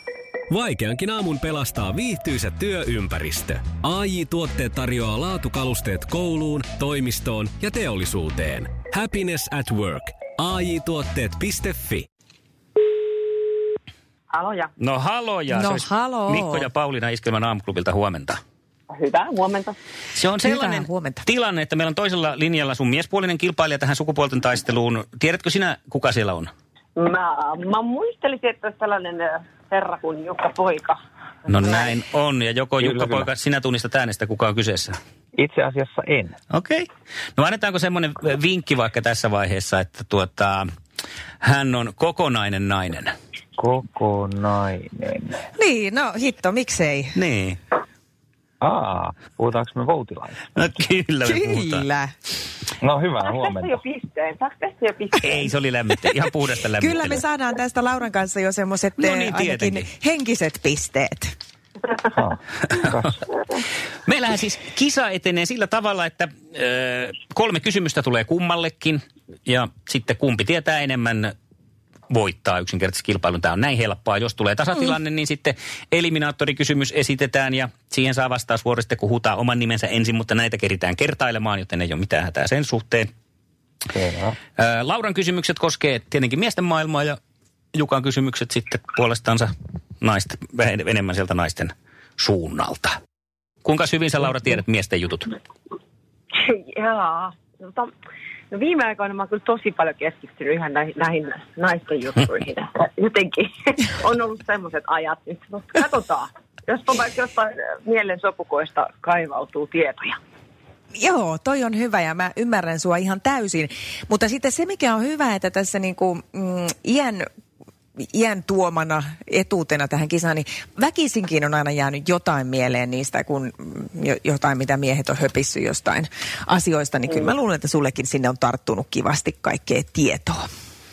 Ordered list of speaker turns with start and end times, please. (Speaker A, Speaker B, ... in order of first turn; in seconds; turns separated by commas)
Speaker A: 0.5-12.1, Speaker B: 14.3-14.7, Speaker C: 14.8-18.4, Speaker D: 15.5-16.7, Speaker B: 18.9-19.8, Speaker C: 20.1-26.5, Speaker D: 20.4-21.2, Speaker B: 27.0-31.0, Speaker C: 31.5-35.0, Speaker E: 32.8-33.3, Speaker E: 35.4-36.4, Speaker C: 36.5-40.6, Speaker C: 41.4-43.1, Speaker E: 43.6-45.4, Speaker D: 45.6-47.2, Speaker C: 47.1-47.6, Speaker E: 48.6-50.4, Speaker C: 50.5-51.9, Speaker D: 51.2-52.1, Speaker E: 52.8-53.8, Speaker B: 53.2-55.6, Speaker C: 55.2-57.2, Speaker D: 56.8-61.3, Speaker C: 59.0-59.9, Speaker E: 62.1-63.2, Speaker C: 62.7-63.0, Speaker C: 64.1-71.3, Speaker C: 72.1-83.1, Speaker E: 83.9-84.4, Speaker C: 84.6-87.2, Speaker C: 87.7-93.0, Speaker C: 93.6-95.4, Speaker B: 96.3-97.9, Speaker B: 98.5-110.2, Speaker D: 111.0-117.3, Speaker D: 118.0-130.5